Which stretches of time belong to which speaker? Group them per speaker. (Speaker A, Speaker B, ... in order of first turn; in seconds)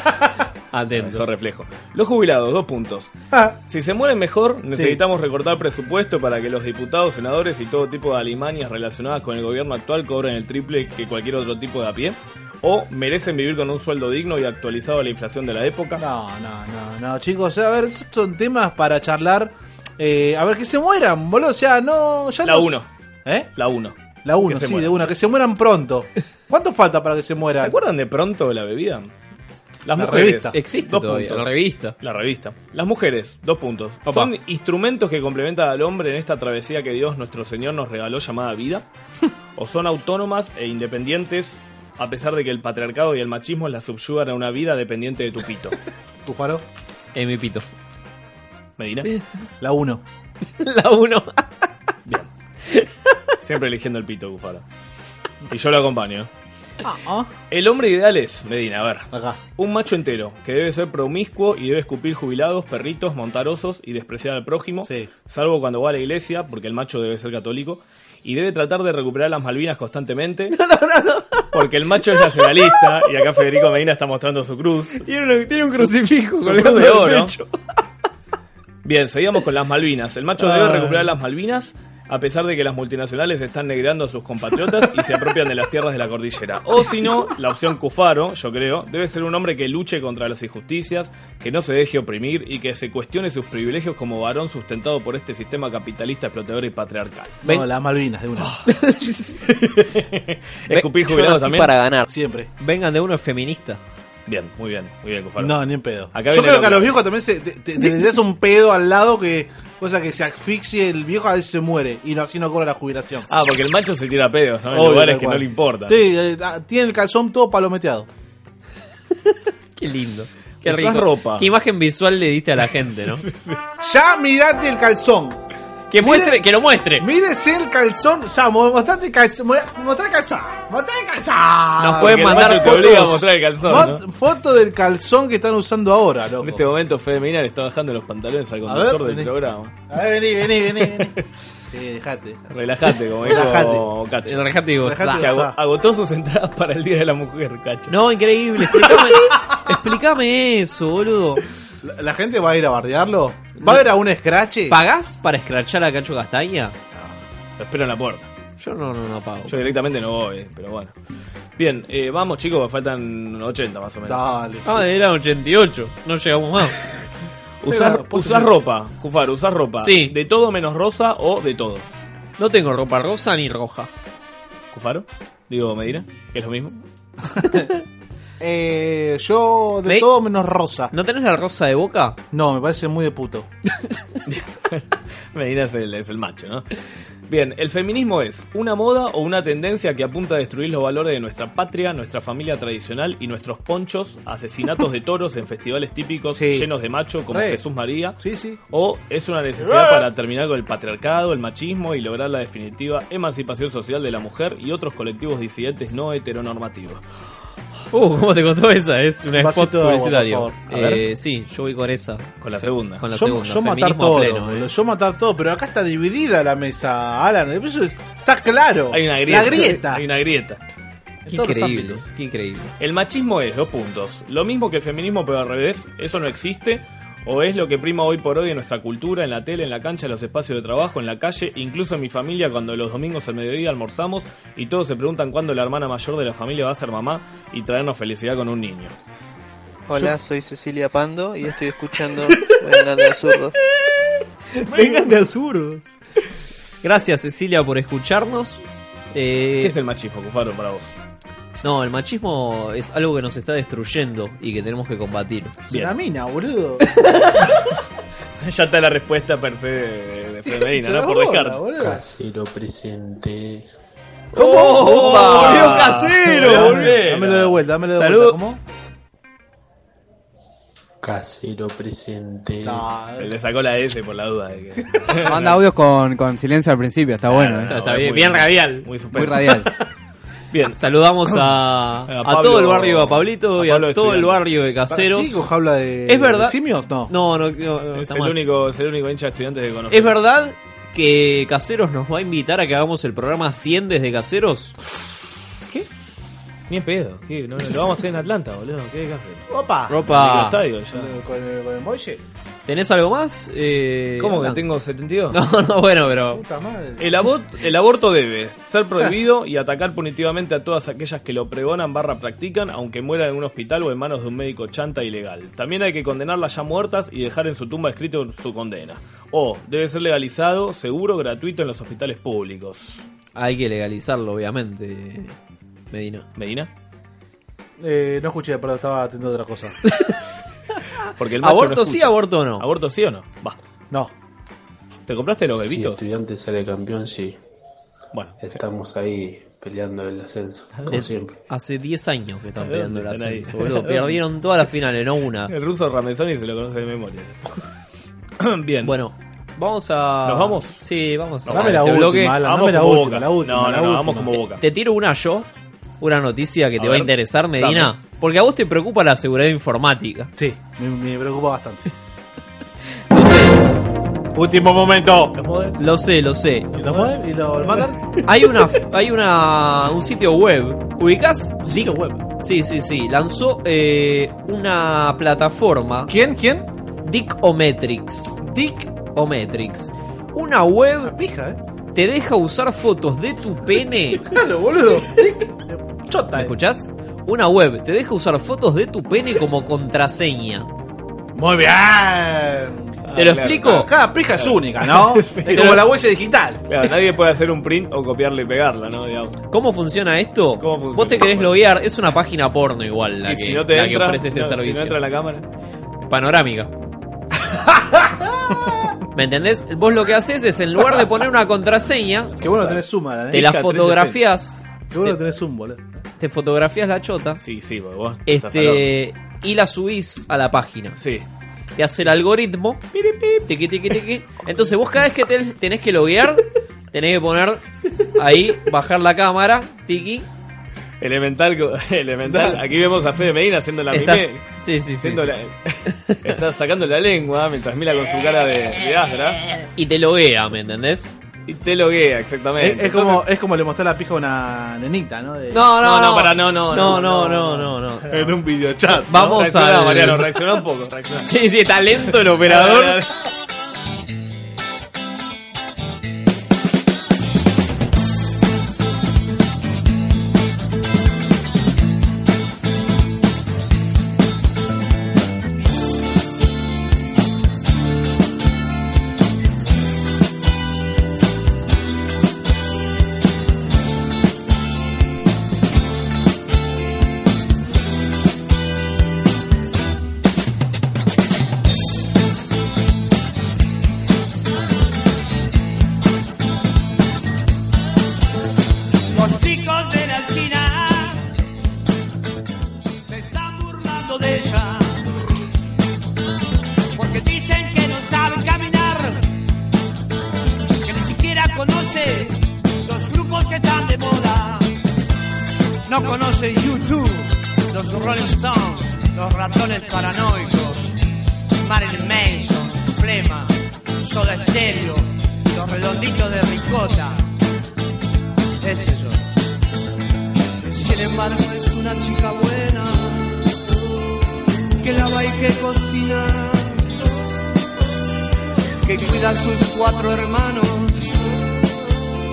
Speaker A: 0.7-1.2, 30.5-31.9, 34.0-34.3, 47.1-47.6, 50.6-51.5, 70.5-71.5, 72.2-72.5, 75.0-77.5, 98.7-99.4, 100.7-102.0, 102.6-103.8, 119.8-123.2, 125.9-127.0, 131.8-133.3, 144.3-145.3, 147.9-151.4, 154.7-156.7, 158.6-159.6, 164.7-166.8, 169.8-170.1, 172.4-173.9, 180.9-182.2, 207.9-212.3, 213.0-214.7, 221.3-222.7, 244.6-246.0, 246.8-249.7, 251.6-255.6, 256.9-257.5, 264.3-267.4, 267.9-268.4, 277.6-278.9, 280.8-285.4, 286.1-288.4, 289.9-294.7, 299.9-300.6, 302.6-304.6, 305.3-306.4, 323.3-325.3, 325.9-326.2, 331.4-332.6, 340.9-345.5, 348.8-352.4, 354.6-355.5, 356.0-360.3, 363.1-363.6, 365.8-366.7, 368.2-376.1, 377.0-378.3, 379.1-381.1, 381.9-384.2, 386.4-390.7, 393.1-393.9, 399.5-405.0, 406.0-406.7, 409.1-412.4, 413.3-414.6, 416.2-417.4, 418.3-421.0, 421.8-427.6, 428.2-430.3, 433.9-435.3, 439.8-441.1, 445.5-448.1, 449.1-450.3, 451.2-453.0
Speaker B: 0.9-3.1, 3.7-16.0, 22.4-22.9, 23.6-25.0, 27.6-29.1, 29.8-38.8, 39.5-45.8, 48.8-49.1, 53.4-54.6, 55.5-56.3, 57.5-70.5, 71.5-75.1, 75.7-77.3, 78.8-97.4, 99.5-101.7, 104.3-107.0, 113.3-116.0, 120.6-121.5, 123.2-123.6, 132.0-134.0, 136.4-139.7, 140.8-141.2, 142.5-144.5, 145.1-147.9, 156.9-158.3, 159.5-160.9, 161.6-164.2, 167.6-171.8, 174.7-176.8, 184.3-184.8, 185.3-186.7, 187.3-198.2, 198.7-207.0, 210.7-211.0, 212.4-213.0, 218.9-220.6, 222.8-238.9, 249.6-250.9, 258.4-261.7, 264.7-267.4, 273.2-275.6, 277.3-279.6, 280.5-281.5, 282.1-284.4, 287.9-290.2, 296.7-299.4, 300.1-301.1, 304.2-305.4, 307.0-323.0, 326.4-326.7, 331.2-333.6, 335.1-336.0, 338.1-338.6, 340.8-341.0, 342.6-344.2, 345.5-347.4, 348.4-348.9, 350.2-350.7, 351.5-354.6, 356.8-357.9, 365.3-365.8, 366.7-367.1, 393.1-395.9, 396.7-399.3, 400.6-401.6, 403.2-405.4, 412.3-412.8, 413.4-414.0, 417.4-418.9, 421.0-421.2, 431.0-434.4, 435.0-439.4, 441.5-443.2, 445.8-448.2, 449.1-451.3, 452.4-453.1
Speaker C: 4.7-5.0, 15.9-22.7, 24.2-27.7, 29.9-30.5, 46.2-46.6, 49.6-50.0, 56.8-57.3, 59.1-59.4, 64.8-65.1, 80.4-81.1, 97.4-98.5, 102.1-102.5, 105.4-113.3, 114.7-118.1, 123.8-125.4, 126.0-126.4, 127.0-133.0, 133.6-136.6, 138.7-139.3, 139.9-141.1, 141.7-142.4, 143.2-143.8, 144.8-145.6, 151.8-154.8, 164.0-164.7, 167.7-168.5, 177.3-177.7, 178.4-180.9, 182.3-183.5, 196.3-196.7, 197.3-197.6, 198.2-198.6, 209.3-210.6, 213.1-220.0, 221.2-222.0, 255.7-256.9, 260.5-262.0, 264.3-268.6, 272.6-273.3, 284.9-287.1, 299.5-300.0, 300.9-302.2, 306.3-307.2, 327.8-329.8, 351.5-354.4, 360.4-361.9, 364.3-365.3, 366.8-368.0, 371.6-372.2, 376.1-376.7, 378.4-378.9, 381.0-381.6, 384.2-386.5, 391.3-393.0, 393.6-396.6, 412.4-414.1, 414.9-415.9, 432.2-432.6, 442.6-445.7, 448.1-449.3
Speaker D: 239.9-243.5
Speaker E: 261.8-263.7, 271.0-272.8, 335.6-337.4, 338.4-341.4
Speaker F: 275.3-277.7, 279.1-279.7
Speaker G: 489.1-491.2, 493.1-495.0, 496.9-499.3, 500.8-504.7, 505.9-511.0, 511.6-517.3, 518.6-519.2, 520.6-523.4, 524.8-527.1, 528.8-531.2